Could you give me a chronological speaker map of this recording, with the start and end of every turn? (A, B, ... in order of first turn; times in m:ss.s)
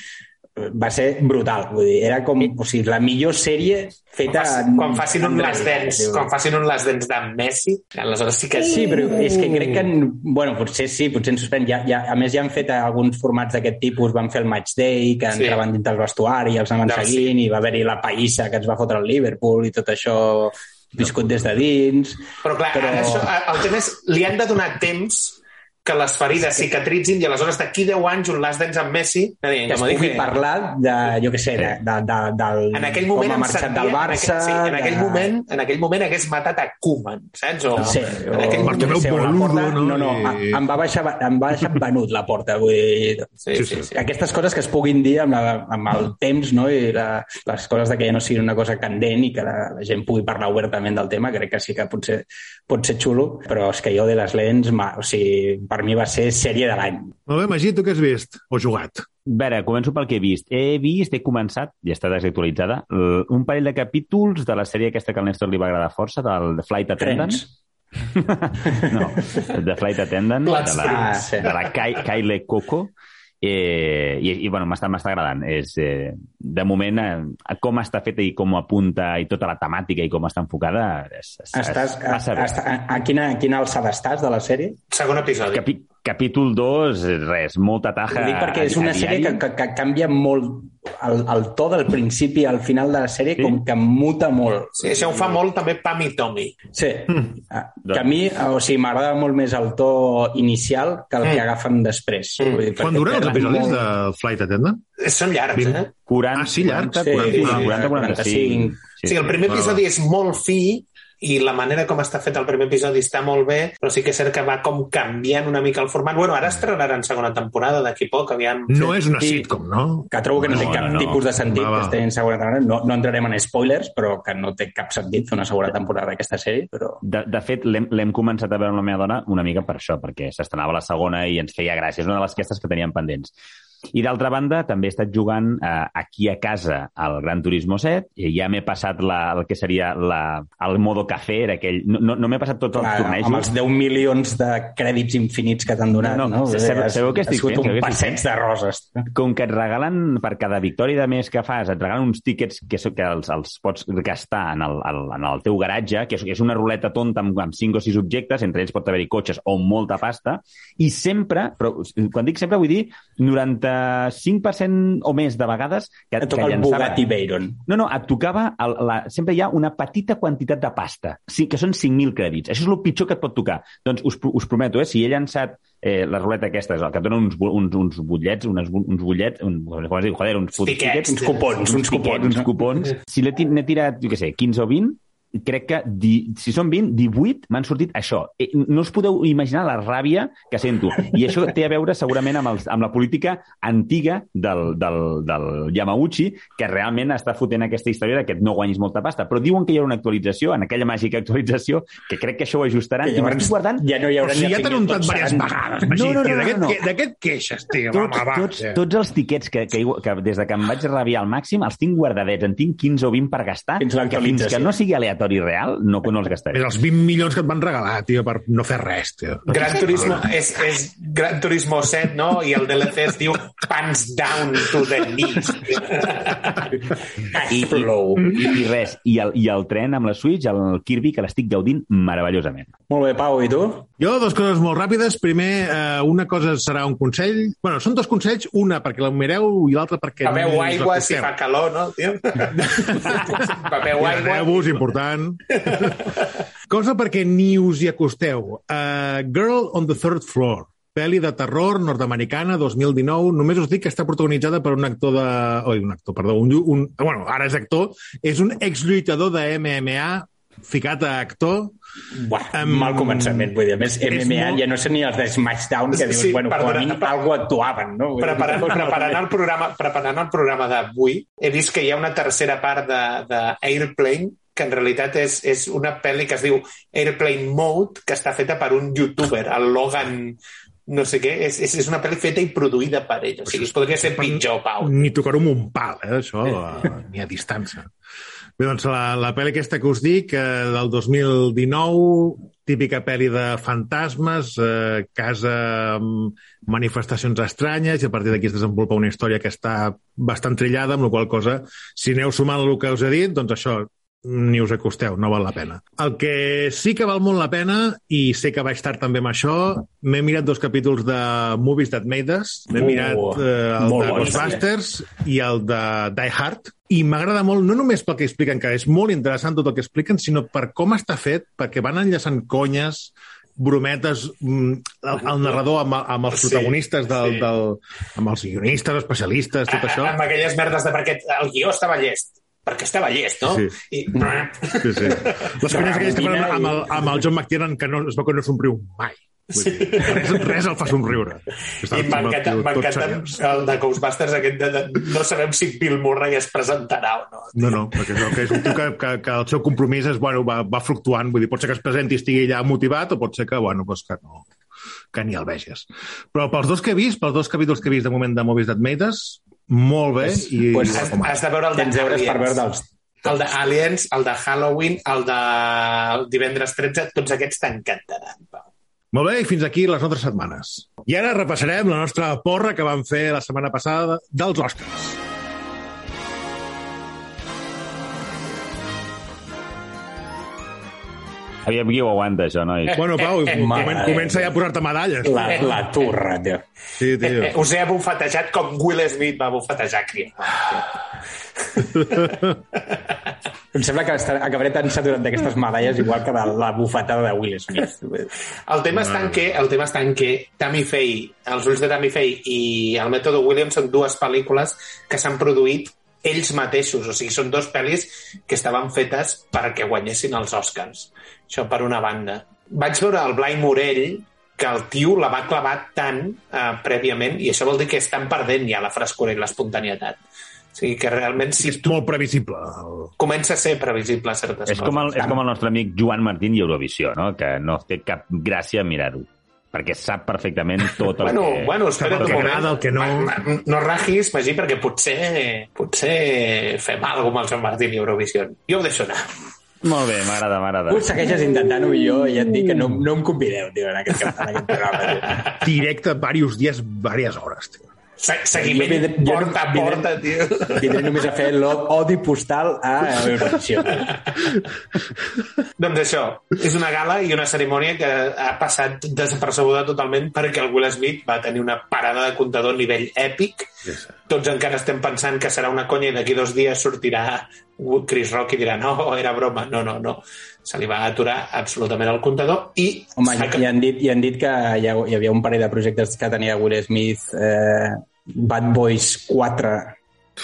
0:00.6-0:06.3 A
0:04.3-0:09.8 B
0:08.6-0:23.3 A
0:15.3-0:15.6 B
0:16.8-0:17.3 B
0:22.4-0:30.3 B
0:29.6-0:35.3 A
0:32.7-0:38.8 B
0:37.8-0:43.4 A
0:38.5-0:40.6 C
0:43.4-0:44.0 B
0:43.5-0:43.9 C
0:43.9-0:57.1 A
0:57.3-0:59.0 C
0:59.2-1:07.4 D
1:07.0-1:07.5 A
1:08.1-1:22.5 D
1:08.6-1:09.4 A
1:10.4-1:11.5 B
1:10.7-1:11.5 A
1:21.5-1:24.8 A
1:24.9-1:25.6 B
1:25.5-1:29.4 D
1:28.1-1:35.4 A
1:34.8-1:36.6 B
1:36.7-1:43.9 A
1:37.8-1:38.1 D
1:42.4-1:43.7 B
1:42.8-1:44.8 C
1:45.0-1:45.9 B
1:45.6-1:45.8 C
1:46.1-1:49.4 D
1:46.3-1:47.7 C
1:47.0-1:48.8 A
1:47.2-1:47.7 B
1:49.0-1:59.0 B
1:49.5-1:49.8 C
1:58.7-2:02.0 C
1:59.2-1:59.5 D
2:00.1-2:07.0 A
2:00.5-2:01.2 D
2:07.0-2:13.3 D
2:13.9-2:23.5 D
2:22.7-2:29.0 A
2:26.0-2:28.2 D
2:29.1-2:47.0 D
2:46.2-2:47.6 A
2:47.6-3:23.8 D
3:00.6-3:01.5 B
3:01.1-3:02.5 A
3:23.0-3:25.6 A
3:24.2-3:28.8 C
3:25.9-3:26.8 D
3:27.9-3:36.6 D
3:33.8-3:34.7 A
3:36.5-3:40.3 C
3:39.5-3:46.7 B
3:47.3-3:48.5 A
3:47.5-3:52.7 D
3:52.9-3:53.9 A
3:54.0-4:01.3 C
4:00.2-4:04.9 B
4:02.6-4:06.0 C
4:05.6-4:06.1 B
4:06.7-4:21.7 C
4:22.1-4:29.2 A
4:22.5-4:23.5 C
4:24.0-4:24.6 C
4:25.9-4:27.1 B
4:28.2-4:45.0 B
4:43.5-4:47.9 C
4:48.6-5:30.1 C
5:12.7-5:14.6 A
5:25.2-5:25.6 B
5:26.3-5:27.5 B
5:29.7-5:36.0 B
5:33.4-5:33.7 C
5:34.2-5:34.4 A
5:34.8-5:43.3 C
5:35.6-5:37.1 A
5:39.5-5:40.6 B
5:41.9-5:48.3 B
5:47.6-5:54.5 C
5:55.1-6:01.4 C
6:00.2-6:01.1 A
6:00.9-6:02.6 B
6:01.7-6:02.8 A
6:03.2-6:08.6 B
6:09.1-6:15.2 C
6:21.6-6:23.0 D
6:23.0-6:25.7 C
6:23.1-6:24.1 B
6:23.5-6:24.6 A
6:25.2-6:26.6 A
6:25.4-6:25.8 B
6:27.0-6:27.5 C
6:27.2-6:31.0 B
6:31.7-6:32.3 B
6:32.0-6:32.3 C
6:33.7-6:38.3 A
6:38.7-7:00.2 B
6:38.9-6:39.3 C
7:00.7-7:02.0 B
7:01.6-7:03.1 C
7:03.2-7:05.3 B
7:04.7-7:12.5 D
7:11.2-7:19.3 B
7:12.0-7:13.4 C
7:19.8-7:21.1 D
7:20.9-7:25.4 A
7:25.6-7:27.8 C
7:28.2-7:31.2 B
7:28.6-7:30.1 A
7:30.8-7:34.1 A
7:35.8-7:43.7 B
7:44.3-7:53.6 B
7:53.2-8:00.0 A